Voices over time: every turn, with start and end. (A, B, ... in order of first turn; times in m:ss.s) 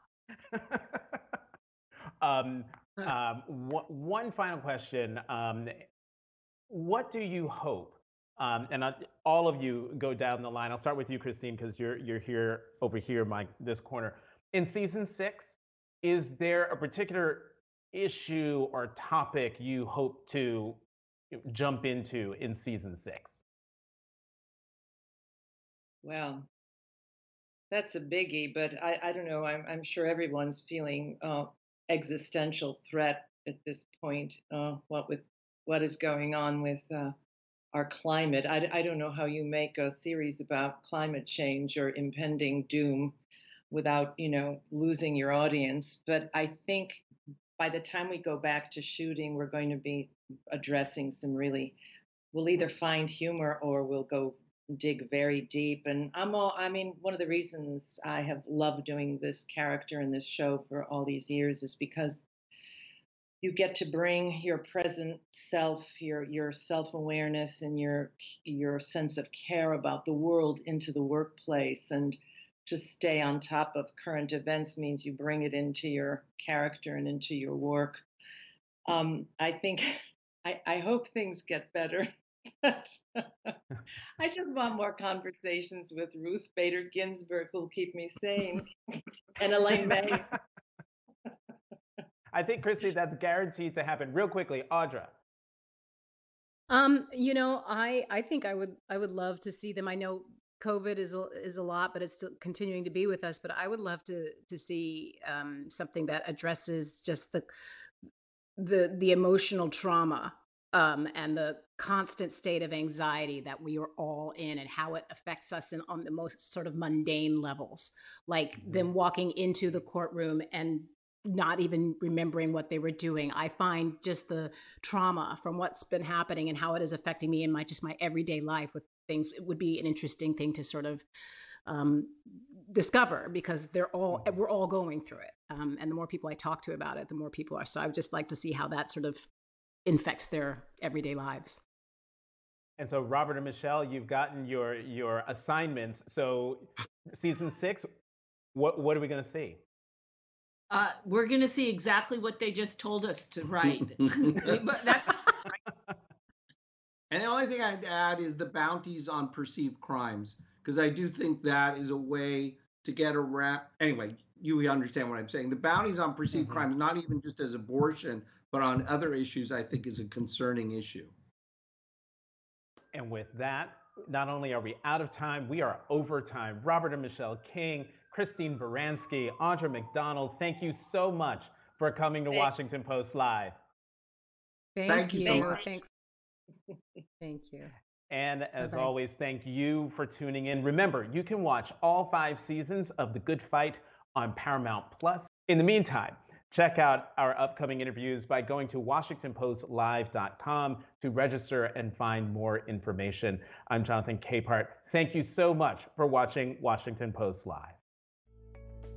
0:00.5-0:01.2 A
0:02.2-0:05.8 A
0:06.7-0:20.8 A
0:21.3-0:23.4 A
0:26.0-0:26.5 B
0:27.7-0:37.1 B
0:37.7-0:43.2 B
0:43.7-0:47.0 B
0:47.6-0:51.8 B
0:52.3-1:02.3 B
1:03.4-1:18.0 B
1:18.9-1:22.1 B
1:22.6-1:23.6 B
1:24.2-1:30.3 B
1:32.3-1:35.1 A
1:36.7-1:47.4 C
1:48.6-2:11.0 C
2:11.6-2:19.3 C
2:19.8-2:21.6 C
2:22.8-2:27.9 A
2:28.5-2:29.6 A
2:30.7-2:35.5 D
2:37.1-2:51.1 E
2:46.4-2:46.6 A
2:52.9-3:03.5 A
3:04.8-3:05.9 C
3:04.9-3:05.7 E
3:07.2-3:07.7 C
3:08.1-3:27.8 A
3:08.6-3:08.9 C